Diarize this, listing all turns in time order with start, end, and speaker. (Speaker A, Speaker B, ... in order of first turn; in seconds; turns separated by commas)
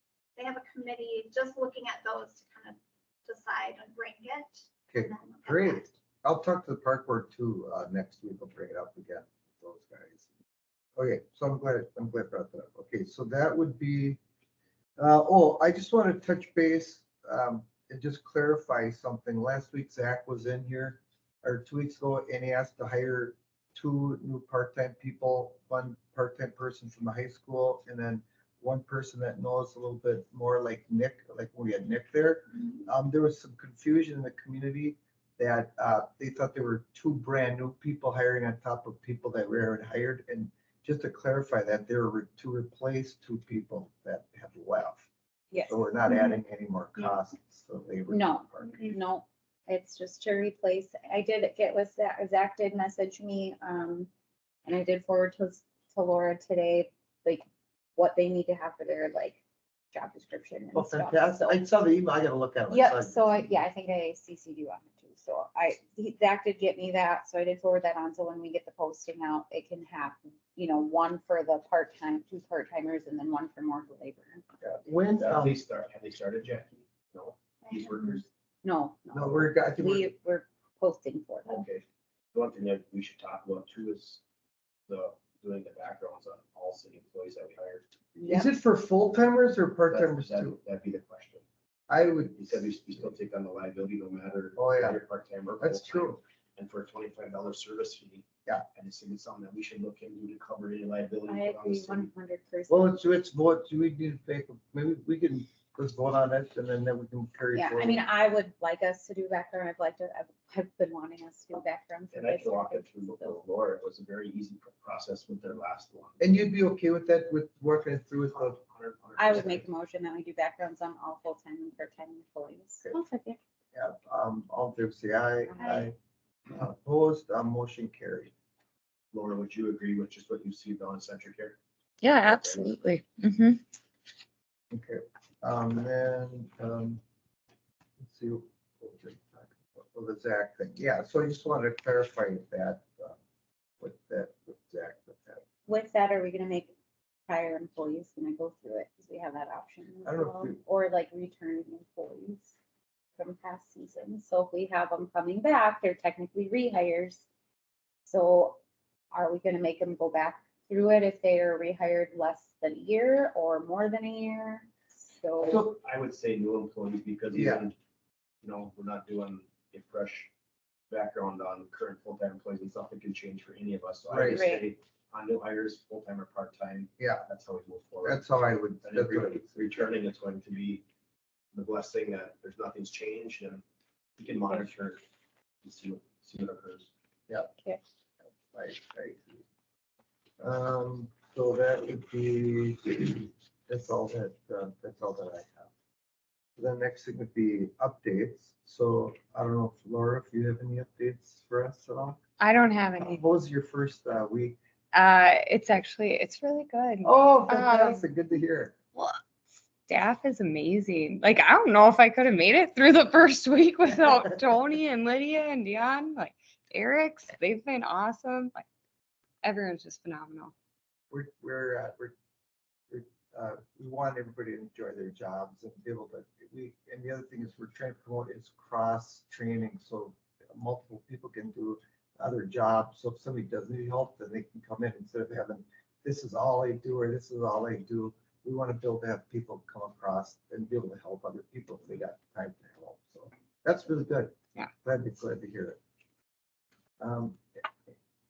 Speaker A: 0.4-6.0, Speaker B: 4.9-10.3, Speaker B: 11.0-14.2, Speaker B: 15.0-45.1, Speaker C: 45.5-46.2, Speaker B: 45.7-48.8, Speaker C: 48.1-54.1, Speaker C: 54.7-59.4, Speaker C: 59.9-61.6, Speaker B: 60.7-63.5, Speaker C: 62.7-74.4, Speaker B: 74.6-75.6, Speaker D: 75.2-78.3, Speaker A: 77.7-78.2, Speaker C: 78.6-81.6, Speaker B: 79.1-80.1, Speaker D: 81.5-84.2, Speaker D: 84.9-87.8, Speaker C: 88.2-88.5, Speaker B: 88.2-90.6, Speaker D: 89.9-91.5, Speaker B: 91.9-92.8, Speaker D: 92.4-102.1, Speaker B: 94.6-95.0, Speaker B: 95.6-96.2, Speaker C: 101.3-103.0, Speaker B: 102.7-108.1, Speaker C: 107.5-113.4, Speaker D: 112.1-116.2, Speaker B: 116.2-118.6, Speaker D: 118.3-119.7, Speaker C: 119.2-123.4, Speaker B: 123.7-126.0, Speaker C: 125.5-125.9, Speaker B: 126.5-128.3, Speaker D: 129.1-131.6, Speaker E: 132.0-133.6, Speaker D: 132.2-132.6, Speaker B: 134.7-137.0, Speaker B: 138.0-143.2, Speaker B: 143.8-145.4, Speaker C: 145.7-146.7, Speaker C: 147.3-152.5, Speaker B: 150.1-150.6, Speaker C: 153.2-157.2, Speaker C: 158.1-158.6, Speaker C: 159.1-165.6, Speaker D: 165.4-167.8, Speaker B: 167.3-167.7, Speaker D: 168.4-170.3, Speaker D: 170.9-180.8, Speaker B: 174.1-174.5, Speaker C: 174.3-174.7, Speaker B: 177.0-177.3, Speaker B: 178.0-179.9, Speaker D: 181.5-183.7, Speaker D: 184.2-185.0, Speaker D: 185.6-186.9, Speaker B: 188.3-189.4, Speaker B: 190.4-195.7, Speaker B: 196.6-202.2, Speaker E: 202.4-203.2, Speaker B: 203.0-204.6, Speaker E: 204.9-208.0, Speaker B: 207.0-208.8, Speaker E: 209.0-209.2, Speaker E: 209.9-218.7, Speaker E: 219.4-220.5, Speaker B: 221.1-222.1, Speaker B: 222.9-245.8, Speaker B: 247.0-247.9